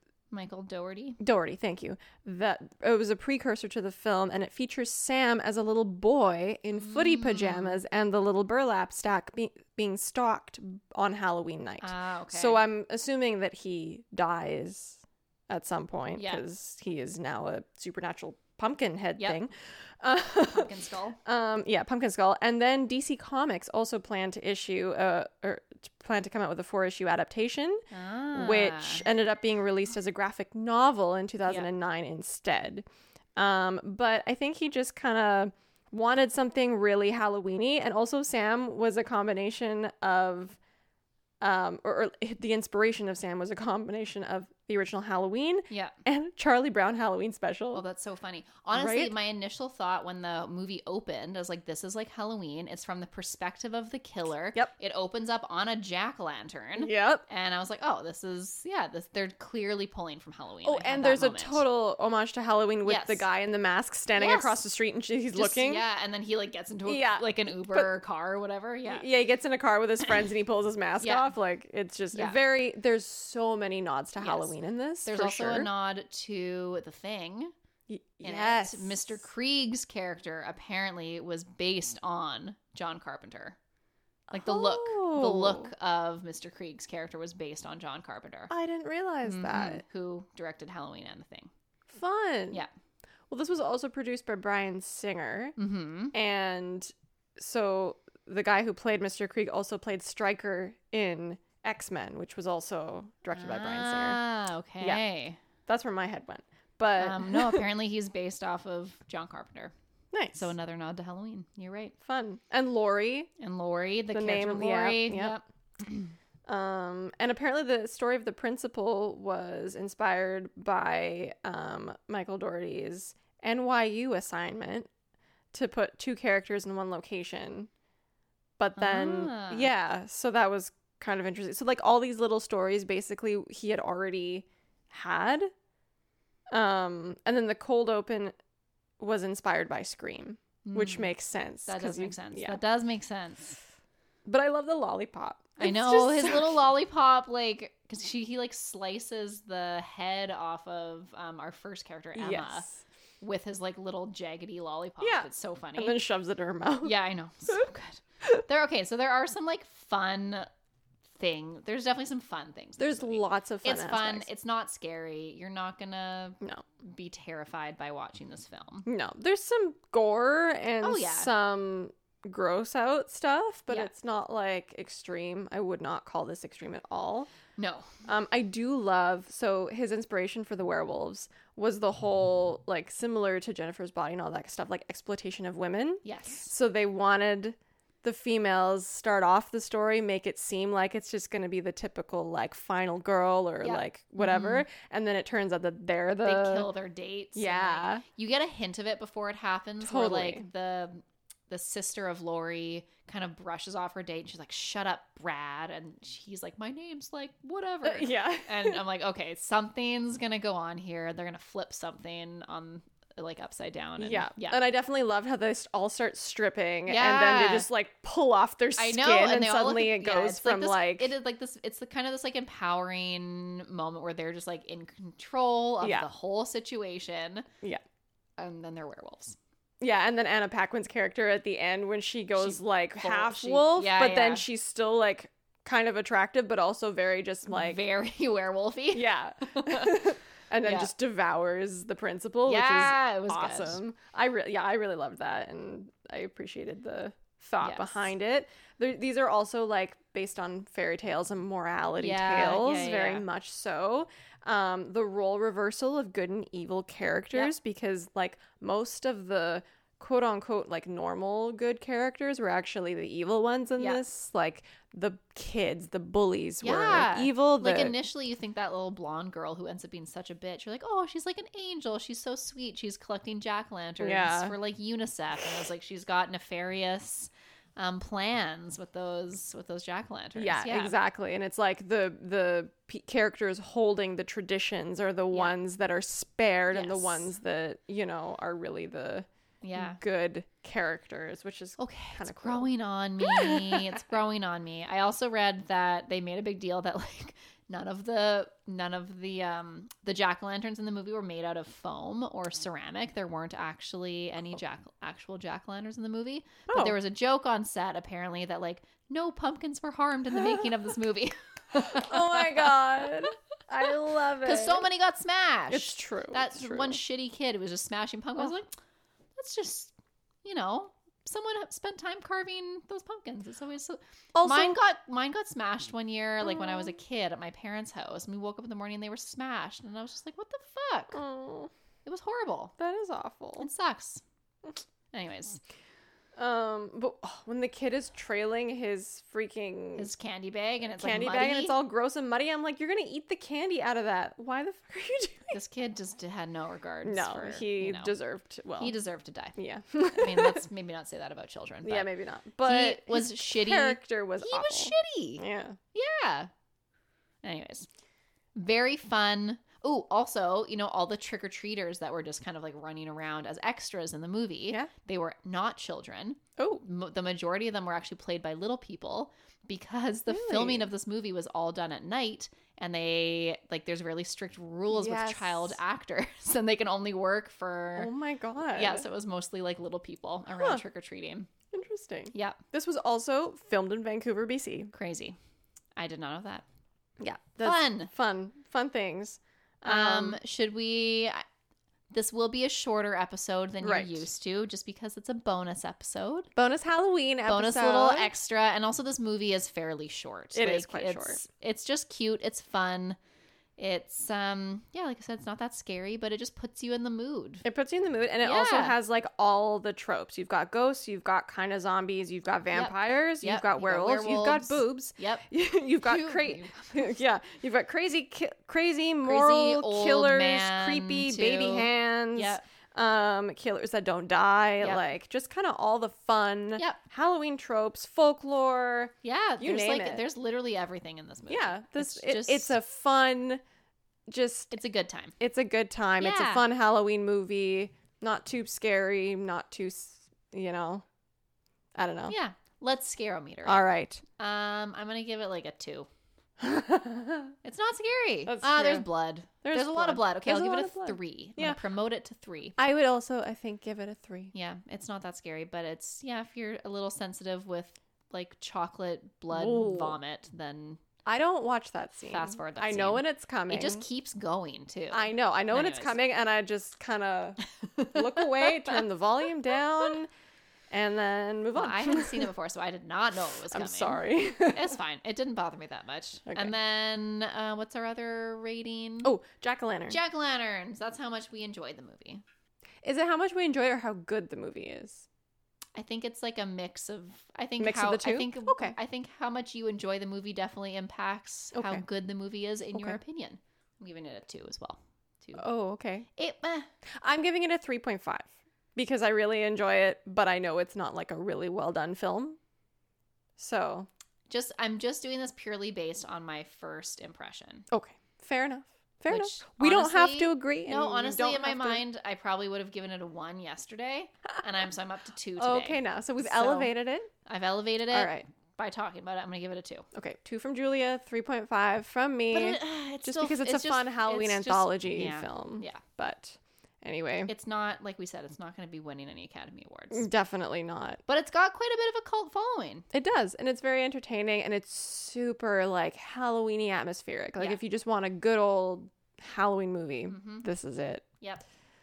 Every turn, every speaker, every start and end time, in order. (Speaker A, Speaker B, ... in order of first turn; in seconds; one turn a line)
Speaker A: 0.3-1.2
Speaker B: 1.2-20.7
Speaker A: 6.8-7.8
Speaker A: 11.8-12.6
Speaker A: 16.1-16.4
Speaker A: 20.4-21.2
Speaker B: 21.2-32.8
Speaker A: 27.9-29.1
Speaker B: 33.4-40.6
Speaker B: 41.4-47.8
Speaker A: 45.7-46.0
Speaker A: 47.7-61.6
Speaker B: 48.7-49.1
Speaker B: 56.8-57.2
Speaker B: 60.6-65.8
Speaker A: 62.8-63.2
Speaker A: 64.1-64.6
Speaker A: 65.3-69.0
Speaker B: 66.8-67.9
Speaker B: 68.9-75.7
Speaker A: 71.0-71.3
Speaker A: 72.1-72.4
Speaker A: 74.2-74.5
Speaker A: 75.0-77.5
Speaker B: 77.9-79.0
Speaker A: 78.2-83.6
Speaker B: 84.3-85.7
Speaker A: 84.3-88.5
Speaker B: 88.5-89.8
Speaker A: 89.2-91.5
Speaker B: 91.9-92.6
Speaker B: 93.3-95.5
Speaker A: 95.6-96.1
Speaker B: 96.1-104.2
Speaker A: 103.3-105.4
Speaker B: 105.7-107.7
Speaker A: 107.0-109.7
Speaker B: 110.1-110.5
Speaker A: 110.3-111.9
Speaker B: 112.0-113.3
Speaker A: 113.4-116.1
Speaker B: 114.1-115.3
Speaker B: 116.5-124.9
Speaker B: 125.5-127.7
Speaker B: 128.6-135.5
Speaker A: 128.8-129.7
Speaker B: 136.5-138.3
Speaker B: 139.0-142.6
Speaker A: 140.6-141.1
Speaker A: 141.7-143.6
Speaker B: 144.2-146.6
Speaker A: 145.6-152.7
Speaker B: 152.2-152.8
Speaker A: 153.2-156.0
Speaker B: 155.0-156.9
Speaker A: 156.8-160.5
Speaker A: 161.1-168.9
Speaker B: 162.8-164.3
Speaker B: 168.8-177.3
Speaker A: 170.8-171.3
Speaker A: 177.6-178.0
Speaker B: 178.1-196.7
Speaker A: 186.0-186.5
Speaker A: 193.6-194.7
Speaker A: 196.2-214.6
Speaker B: 197.3-198.0
Speaker B: 199.8-200.5
Speaker B: 207.8-208.8
Speaker B: 214.0-221.1
Speaker A: 216.9-217.7
Speaker A: 218.8-227.5
Speaker A: 228.4-229.4
Speaker B: 229.8-237.8
Speaker A: 232.4-234.4
Speaker A: 237.5-240.0
Speaker B: 238.9-267.9
Speaker A: 240.6-240.9
Speaker A: 242.4-243.8
Speaker A: 247.6-248.1
Speaker A: 252.0-253.2
Speaker A: 266.6-280.9
Speaker B: 274.0-274.5
Speaker B: 280.3-294.0
Speaker A: 286.7-287.3
Speaker A: 289.6-290.0
Speaker A: 291.8-313.2
Speaker B: 306.7-306.9
Speaker B: 311.8-314.9
Speaker A: 314.4-318.7
Speaker B: 315.7-317.0
Speaker A: 319.4-331.2
Speaker B: 324.3-324.8
Speaker B: 326.4-326.9
Speaker B: 331.1-331.7
Speaker A: 332.0-332.7
Speaker B: 332.8-333.7
Speaker A: 333.6-334.2
Speaker A: 335.1-335.6
Speaker B: 336.4-340.1
Speaker A: 339.9-341.8
Speaker B: 341.0-345.6
Speaker A: 345.5-348.1
Speaker B: 347.0-348.9
Speaker A: 348.8-352.1
Speaker B: 349.6-350.6
Speaker B: 351.8-355.8
Speaker A: 352.6-356.5
Speaker A: 357.4-357.9
Speaker A: 358.5-378.1
Speaker B: 366.6-366.8
Speaker B: 370.3-370.9
Speaker B: 374.9-375.8
Speaker B: 377.9-379.1
Speaker A: 378.7-381.5
Speaker B: 380.5-380.8
Speaker B: 381.7-384.9
Speaker A: 382.3-382.6
Speaker A: 384.9-385.4
Speaker A: 386.0-386.6
Speaker B: 387.2-390.4
Speaker A: 387.6-388.1
Speaker A: 389.8-391.4
Speaker A: 392.1-396.5
Speaker B: 393.8-394.3
Speaker B: 396.6-398.3
Speaker A: 397.5-403.2
Speaker B: 400.5-401.4
Speaker A: 403.8-407.6
Speaker B: 407.6-430.2
Speaker A: 408.4-408.9
Speaker A: 412.7-415.4
Speaker A: 416.0-417.1
Speaker A: 419.2-422.6
Speaker A: 429.2-432.7
Speaker B: 431.5-433.6
Speaker B: 434.3-434.7
Speaker A: 434.7-435.3
Speaker B: 435.4-441.0
Speaker A: 436.2-436.6
Speaker B: 441.9-442.3
Speaker A: 442.3-443.8
Speaker B: 443.6-444.2
Speaker A: 444.4-446.1
Speaker B: 446.6-447.5
Speaker A: 447.6-452.8
Speaker B: 448.5-449.1
Speaker B: 449.6-451.8
Speaker B: 452.8-454.5
Speaker A: 454.5-461.0
Speaker B: 459.5-460.2
Speaker B: 461.2-464.1
Speaker A: 462.3-466.2
Speaker B: 465.1-470.3
Speaker A: 467.7-469.0
Speaker B: 470.9-472.5
Speaker A: 471.7-479.3
Speaker B: 473.7-474.9
Speaker B: 476.5-476.7
Speaker B: 479.2-480.2
Speaker A: 480.1-482.4
Speaker B: 483.0-485.2
Speaker A: 485.9-495.6
Speaker B: 487.8-488.9
Speaker B: 491.7-492.0
Speaker B: 492.9-493.2
Speaker B: 495.6-496.2
Speaker A: 496.3-496.9
Speaker B: 497.2-502.6
Speaker B: 503.6-504.1
Speaker A: 504.5-507.9
Speaker B: 507.9-512.0
Speaker A: 509.3-516.9
Speaker B: 515.6-517.3
Speaker A: 517.4-520.1
Speaker B: 518.1-518.4
Speaker B: 520.1-527.5
Speaker A: 522.5-526.0
Speaker A: 527.5-530.3
Speaker B: 530.1-531.2
Speaker A: 531.3-533.0
Speaker B: 533.1-541.3
Speaker A: 540.3-540.6